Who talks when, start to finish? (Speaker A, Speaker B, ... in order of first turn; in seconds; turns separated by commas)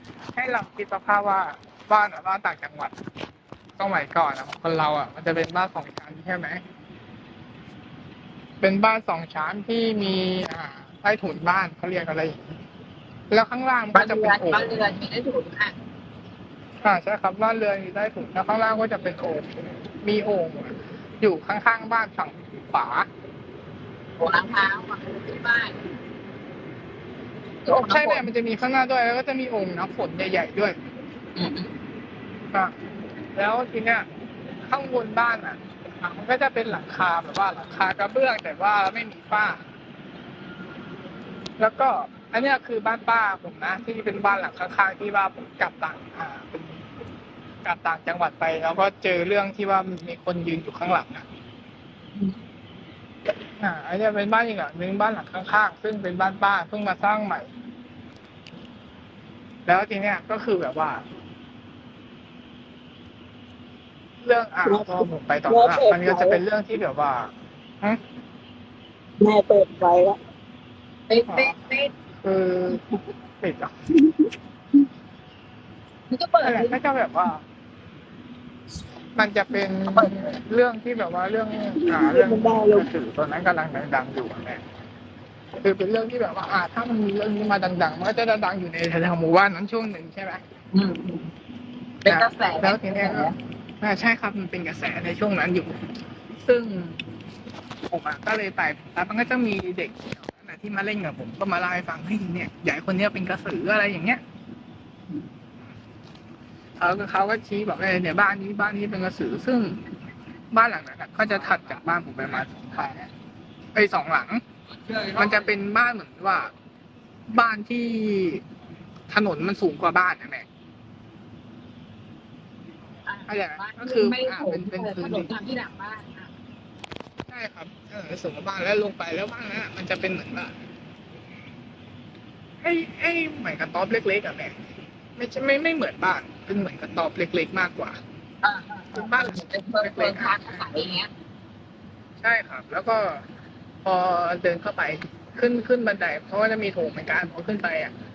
Speaker A: 0.3-3.0, Speaker A: 3.8-6.6, Speaker A: 8.6-12.6, Speaker A: 13.3-14.8, Speaker B: 13.9-15.8, Speaker A: 16.8-23.1, Speaker B: 24.2-25.8, Speaker B: 27.6-28.3, Speaker A: 27.7-30.8, Speaker B: 31.4-31.7, Speaker A: 33.3-34.1, Speaker A: 34.7-39.6, Speaker A: 41.6-46.8, Speaker A: 47.6-51.2, Speaker B: 52.1-52.4, Speaker A: 53.6-57.5, Speaker A: 59.6-61.0, Speaker A: 64.2-68.0, Speaker C: 64.7-66.4, Speaker C: 69.2-70.2, Speaker B: 71.1-71.9, Speaker A: 71.3-71.6, Speaker A: 72.2-72.8, Speaker A: 73.4-73.7, Speaker B: 76.1-76.8, Speaker A: 76.4-77.4, Speaker A: 79.1-84.6, Speaker C: 81.8-82.8, Speaker A: 85.6-90.4, Speaker B: 90.7-91.3, Speaker B: 92.0-93.3, Speaker A: 92.0-95.8, Speaker A: 96.4-97.0, Speaker A: 97.9-104.2, Speaker A: 106.8-109.8, Speaker A: 110.5-113.1, Speaker A: 113.7-114.4, Speaker A: 115.0-116.5, Speaker A: 117.3-118.4, Speaker A: 119.1-120.5, Speaker B: 123.0-126.3, Speaker A: 123.3-125.4, Speaker A: 127.3-130.5, Speaker A: 132.6-134.6, Speaker A: 135.2-138.0, Speaker B: 138.4-141.1, Speaker A: 138.9-140.7, Speaker A: 142.2-143.3, Speaker A: 143.8-147.9